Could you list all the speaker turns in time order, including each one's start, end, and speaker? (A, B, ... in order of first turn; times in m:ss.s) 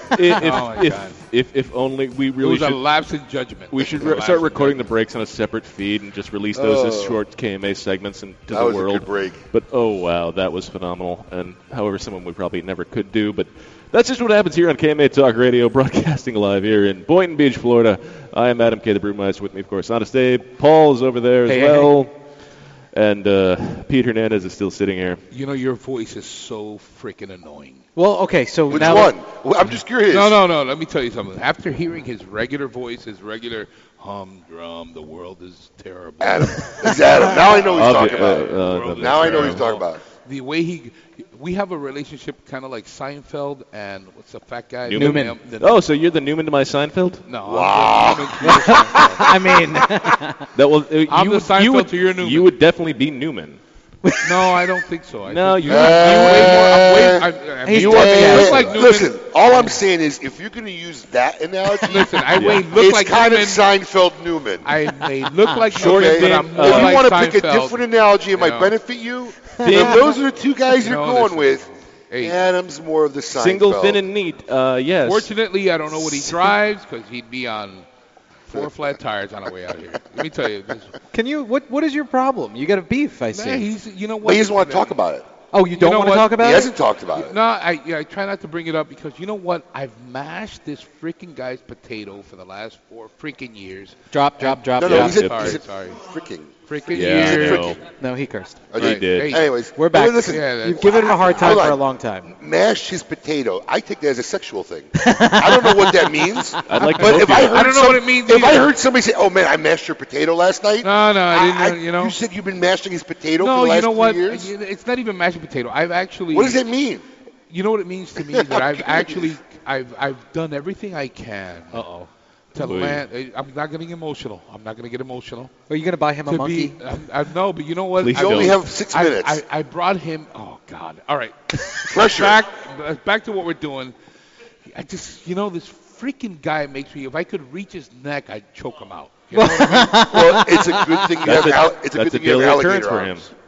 0:00.2-0:02.8 A
0:00.4-0:01.1 B
0:02.4-0:04.8 B
0:03.7-0:22.1 A
0:06.6-0:07.2 C
0:08.5-0:09.4 C
0:21.5-0:21.9 D
0:22.9-0:25.2 A
0:25.3-0:27.8 B
0:28.0-0:29.1 D
0:28.7-0:30.4 C
0:30.1-0:36.7 B
0:36.2-0:40.0 C
0:37.4-0:39.7 A
0:38.5-0:45.8 B
0:44.9-0:47.2 A
0:45.0-0:45.4 D
0:47.3-0:49.2 B
0:47.4-0:49.1 C
0:48.4-0:50.4 D
0:50.5-0:53.6 A
0:51.1-0:52.5 B
0:54.0-0:54.3 D
0:54.2-0:59.2 B
0:55.3-0:56.6 A
0:55.6-1:04.7 C
0:57.6-0:58.8 D
1:01.9-1:03.6 B
1:02.3-1:02.6 A
1:04.6-1:08.7 B
1:05.7-1:11.6 C
1:05.8-1:07.0 A
1:09.6-1:10.1 D
1:10.8-1:12.4 B
1:12.2-1:14.0 C
1:13.3-1:15.3 A
1:15.0-1:17.8 B
1:16.1-1:16.4 D
1:18.5-1:20.9 B
1:18.5-1:18.9 C
1:21.1-1:23.7 D
1:23.3-1:25.0 B
1:24.2-1:25.2 C
1:25.5-1:26.7 D
1:25.7-1:26.5 B
1:26.3-1:27.4 C
1:27.2-1:36.0 B
1:34.1-1:35.3 D
1:34.7-1:37.8 C
1:34.8-1:35.6 A
1:36.7-1:37.8 B
1:36.9-1:37.8 A
1:38.0-1:38.8 D
1:38.7-1:54.5 C
1:38.8-1:39.4 A
1:38.8-1:39.4 B
1:39.7-1:42.3 D
1:40.3-1:41.3 B
1:44.9-1:47.1 D
1:46.6-1:47.6 A
1:47.3-1:48.7 B
1:50.8-1:52.2 B
1:53.4-1:56.7 B
1:56.3-1:57.0 C
1:57.5-2:01.8 B
1:58.3-1:59.3 C
2:01.7-2:02.1 D
2:02.5-2:05.5 B
2:02.6-2:03.0 A
2:05.7-2:06.8 D
2:06.3-2:13.9 B
2:08.0-2:08.6 A
2:08.1-2:09.4 C
2:11.9-2:12.4 C
2:14.7-2:20.0 B
2:19.3-2:21.2 D
2:19.6-2:23.2 C
2:21.2-2:23.3 A